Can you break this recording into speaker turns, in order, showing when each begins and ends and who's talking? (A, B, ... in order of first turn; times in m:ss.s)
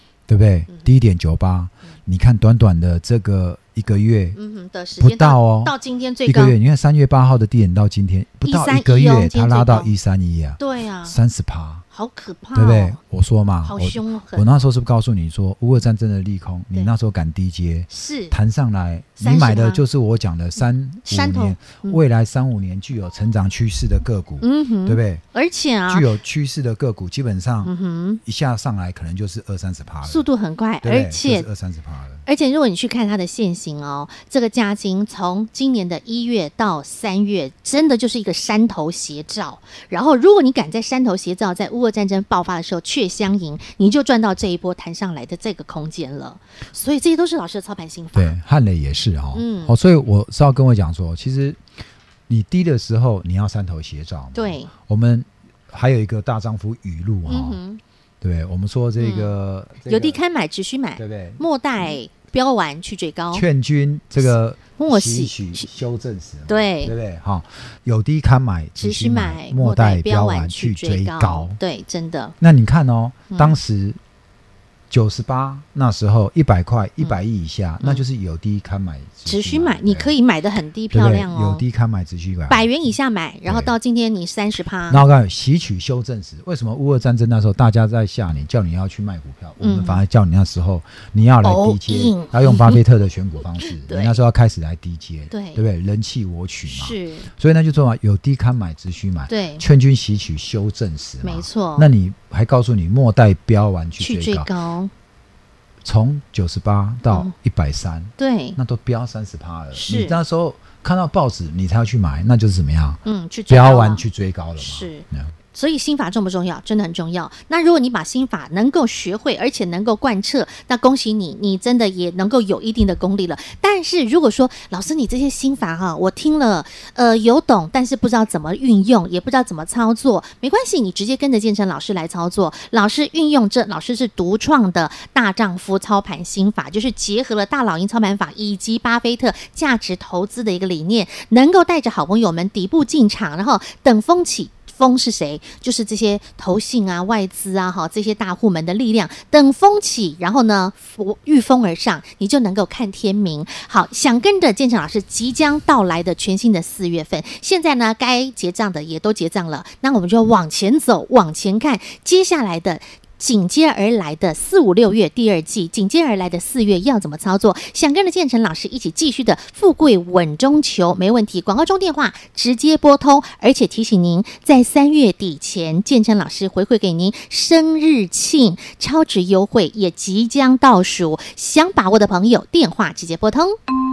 0:00.3-0:04.4 A
0:04.3-0:06.6 B
0:05.0-0:05.7 A
0:06.2-0:11.8 A
0:08.4-0:09.9 B
0:10.6-0:11.2 B
0:11.9-0:13.0 B
0:12.5-0:25.2 A
0:13.6-0:14.5 B
0:17.9-0:18.4 B
0:19.2-0:19.8 B
0:21.0-0:22.0 B
0:24.4-0:26.1 B
0:25.9-0:27.7 A
0:27.6-0:28.2 B
0:28.2-0:30.3 A
0:30.0-0:31.4 B
0:30.8-0:32.2 A
0:32.2-0:48.4 B
0:48.1-0:51.6 A
0:49.3-0:49.7 B
0:52.3-0:57.6 A
0:54.3-0:54.7 B
0:57.3-0:57.8 B
0:58.2-1:00.2 A
0:59.0-0:59.3 B
0:59.8-1:03.4 B
1:01.0-1:01.4 A
1:03.3-1:11.6 A
1:04.2-1:05.7 B
1:06.5-1:06.9 B
1:08.8-1:12.3 B
1:12.4-1:14.0 A
1:13.3-1:13.6 B
1:14.9-1:20.1 A
1:19.2-1:21.6 B
1:20.9-1:22.7 A
1:22.5-1:25.0 B
1:23.4-1:23.7 A
1:24.9-1:44.5 A
1:29.6-1:30.0 B
1:31.4-1:32.8 B
1:33.6-1:34.2 B
1:35.3-1:35.6 B
1:36.7-1:37.3 B
1:39.3-1:39.6 B
1:41.2-1:41.9 B
1:44.0-1:44.9 B
1:45.8-1:55.3 A
1:48.2-1:48.6 B
1:49.7-1:50.2 B
1:53.0-1:54.0 B
1:54.6-3:03.5 B